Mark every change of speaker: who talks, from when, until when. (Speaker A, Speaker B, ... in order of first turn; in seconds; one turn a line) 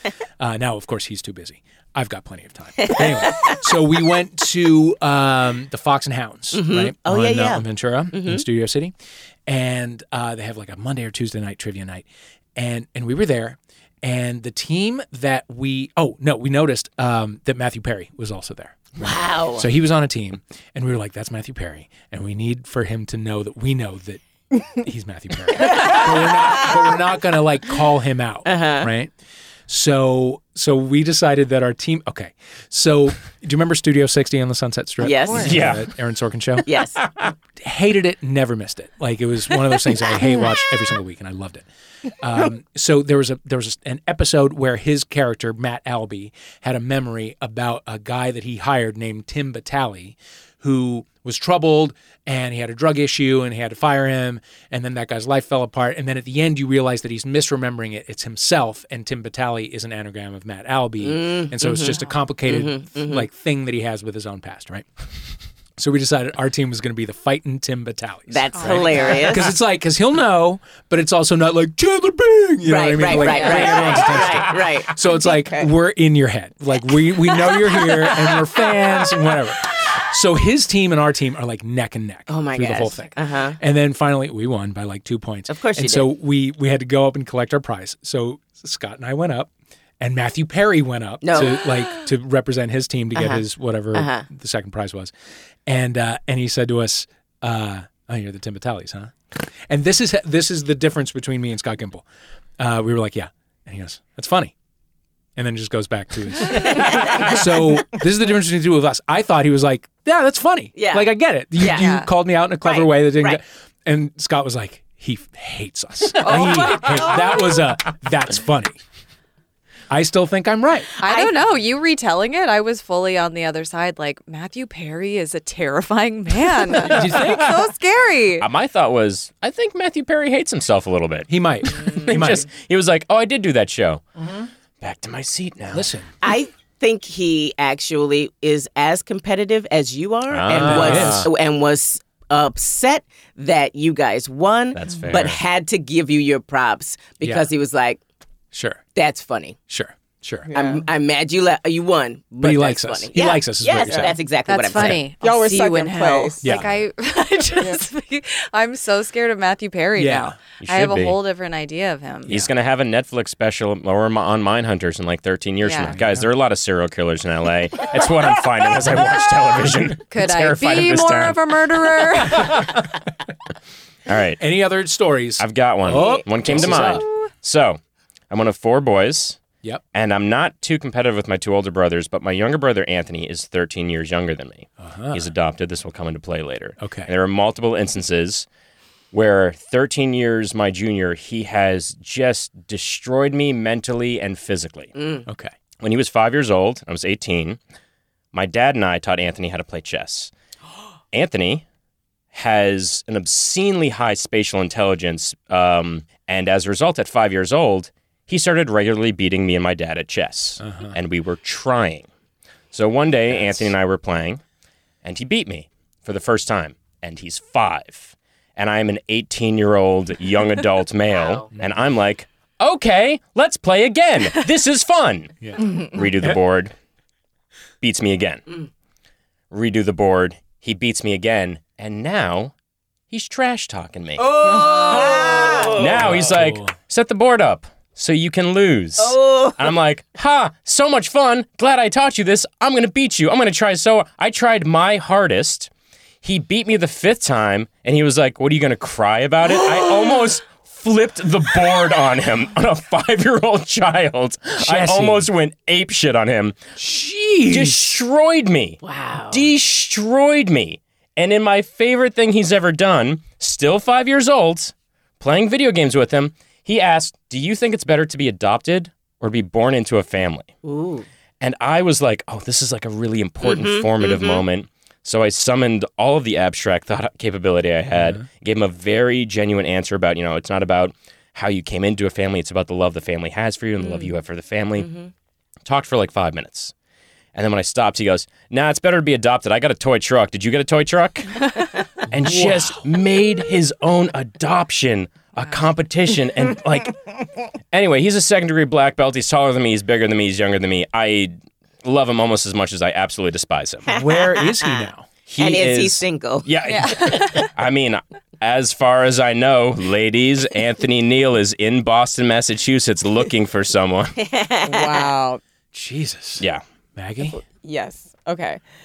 Speaker A: 0.4-8.9
Speaker B: 2.8-3.6
Speaker B: 6.5-8.4
Speaker A: 9.5-12.0
Speaker A: 12.6-29.1
Speaker B: 19.0-19.6
Speaker B: 28.4-28.9
Speaker A: 29.7-36.7
Speaker B: 35.0-35.7
Speaker C: 35.4-35.9
Speaker B: 36.6-37.1
Speaker A: 37.5-41.6
Speaker A: 42.2-64.8
Speaker B: 61.0-63.2
Speaker A: 65.8-95.1
Speaker B: 68.3-69.5
Speaker D: 68.6-69.2
Speaker E: 69.0-69.3
Speaker B: 72.6-74.9
Speaker D: 73.2-73.8
Speaker E: 75.1-75.7
Speaker B: 82.3-83.6
Speaker B: 85.5-86.1
Speaker B: 91.2-92.0
Speaker B: 93.1-93.4
Speaker B: 93.9-94.2
Speaker A: 95.7-99.1
Speaker A: 99.7-102.0
Speaker A: 102.6-104.5
Speaker A: 105.3-118.8
Speaker B: 106.5-107.3
Speaker B: 110.8-111.9
Speaker D: 111.7-112.1
Speaker B: 112.6-113.4
Speaker D: 116.2-117.4
Speaker A: 119.9-120.9
Speaker D: 121.0-128.4
Speaker A: 126.8-127.5
Speaker C: 128.4-134.0
Speaker A: 131.3-132.4
Speaker C: 134.8-135.9
Speaker A: 135.7-136.1
Speaker B: 136.2-148.0
Speaker C: 140.3-141.3
Speaker A: 140.5-141.2
Speaker C: 144.7-145.4
Speaker A: 148.5-148.8
Speaker B: 148.9-149.6
Speaker A: 149.7-150.5
Speaker E: 150.5-150.8
Speaker B: 150.5-155.0
Speaker A: 152.4-154.1
Speaker D: 154.5-162.3
Speaker E: 155.2-156.6
Speaker A: 156.4-156.7
Speaker A: 159.9-160.3
Speaker C: 160.6-161.2
Speaker C: 162.3-171.4
Speaker D: 165.6-165.9
Speaker A: 165.8-166.3
Speaker D: 170.1-172.7
Speaker A: 172.4-172.8
Speaker C: 174.1-174.4
Speaker A: 174.4-177.0
Speaker C: 175.4-179.4
Speaker C: 179.9-188.5
Speaker A: 184.8-185.3
Speaker A: 186.8-187.1
Speaker C: 189.1-194.9
Speaker B: 195.0-195.2
Speaker A: 195.3-195.5
Speaker C: 195.8-197.6
Speaker C: 198.3-200.3
Speaker C: 201.1-201.6
Speaker C: 202.3-212.1
Speaker A: 210.6-210.9
Speaker C: 212.7-214.4
Speaker A: 213.3-213.7
Speaker C: 215.0-226.7
Speaker B: 221.1-221.5
Speaker A: 225.4-225.7
Speaker C: 227.8-228.4
Speaker C: 229.5-232.5
Speaker C: 233.1-245.7
Speaker B: 234.2-236.0
Speaker E: 234.6-235.7
Speaker A: 235.9-236.7
Speaker B: 239.0-239.6
Speaker C: 246.2-256.6
Speaker A: 254.6-255.3
Speaker A: 256.8-258.0
Speaker C: 257.5-270.5
Speaker B: 258.8-259.5
Speaker B: 270.6-271.1
Speaker C: 271.4-284.9
Speaker B: 273.4-274.4
Speaker A: 277.9-278.2
Speaker B: 283.8-284.1
Speaker B: 284.8-285.1
Speaker C: 285.6-286.7
Speaker C: 287.3-291.4
Speaker C: 292.1-297.0
Speaker A: 292.1-292.9
Speaker C: 297.7-303.9
Speaker A: 303.9-305.1
Speaker B: 303.9-304.9
Speaker C: 305.3-314.1
Speaker B: 305.4-306.5
Speaker D: 306.7-307.4
Speaker B: 314.2-315.1
Speaker E: 314.6-315.4
Speaker A: 315.7-317.4
Speaker E: 317.2-318.6